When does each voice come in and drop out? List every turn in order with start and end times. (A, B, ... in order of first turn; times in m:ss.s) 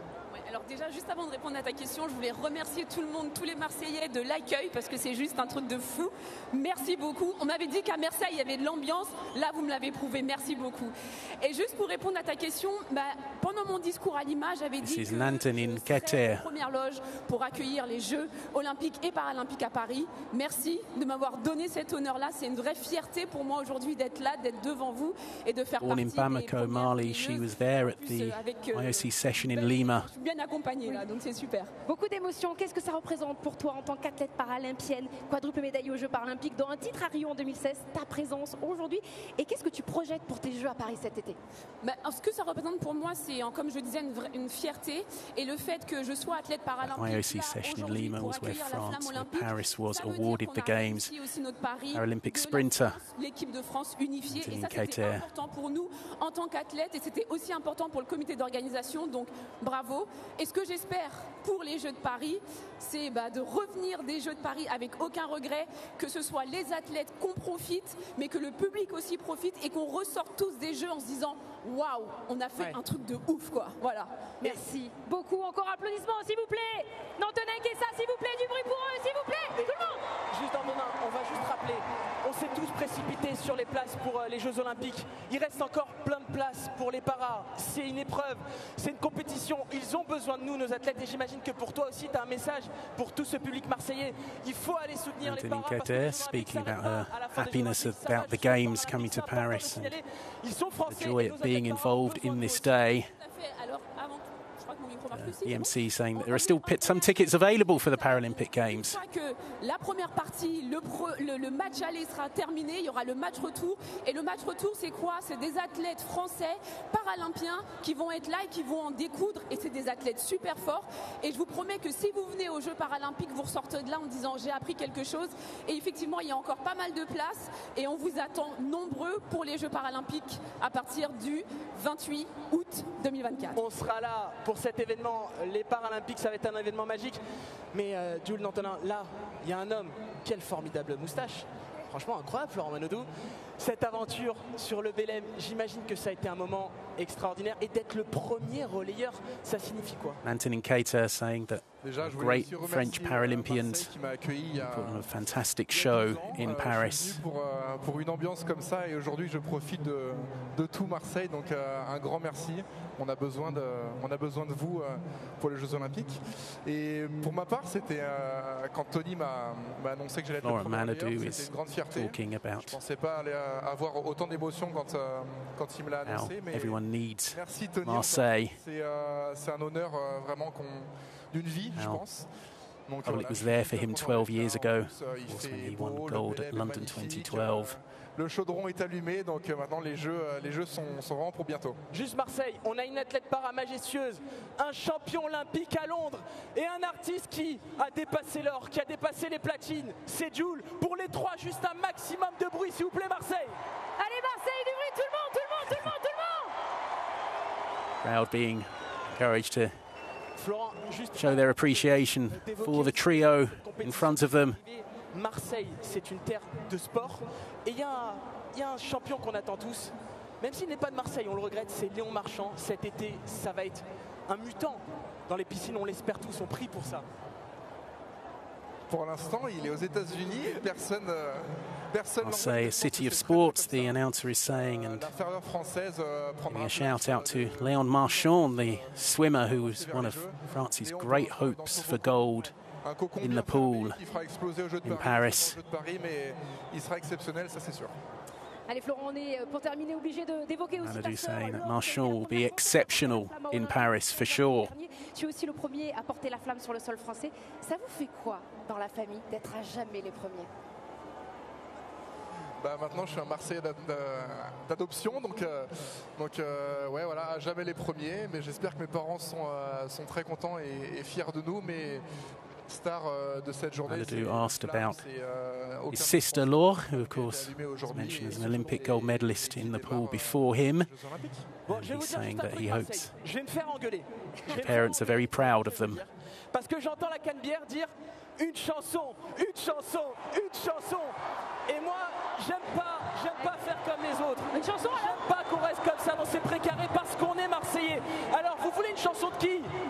0:00.3-0:31.7 A
0:14.8-0:16.4 B
0:25.8-0:30.1 B
0:31.8-0:41.4 C
0:41.8-1:14.3 A
0:46.8-0:51.1 B
0:51.9-0:53.0 B
0:54.3-0:55.3 B
1:14.4-1:20.0 C
1:19.5-1:42.7 D
1:35.2-1:39.9 B
1:40.9-1:43.1 B
1:43.0-2:13.6 A
1:45.1-1:49.0 B
2:13.5-2:17.2 D
2:17.7-2:30.2 D
2:30.2-2:33.9 B
2:31.8-2:35.1 E
2:34.6-2:37.2 B
2:35.7-3:02.3 E
2:50.4-2:52.8 B
2:56.0-2:58.6 B
3:01.8-3:02.0 B
3:02.9-3:11.8 E
3:03.0-3:07.7 B
3:11.9-3:23.6 D
3:24.0-3:26.5 C
3:28.0-3:29.7 B
3:30.4-3:47.0 D
3:31.2-3:34.6 B
3:48.9-4:07.9 E
3:52.2-3:55.1 B
3:56.5-4:02.5 B
4:03.2-4:04.0 B
4:04.8-4:05.6 B
4:08.7-4:20.5 C
4:10.8-4:14.7 B
4:22.6-4:32.0 E
4:32.7-4:41.5 E
4:33.8-4:35.0 B
4:35.9-4:40.9 B
4:41.6-4:51.2 D
4:41.7-4:43.1 B
4:44.5-4:46.0 B
4:51.7-4:59.7 D
4:54.5-4:55.2 C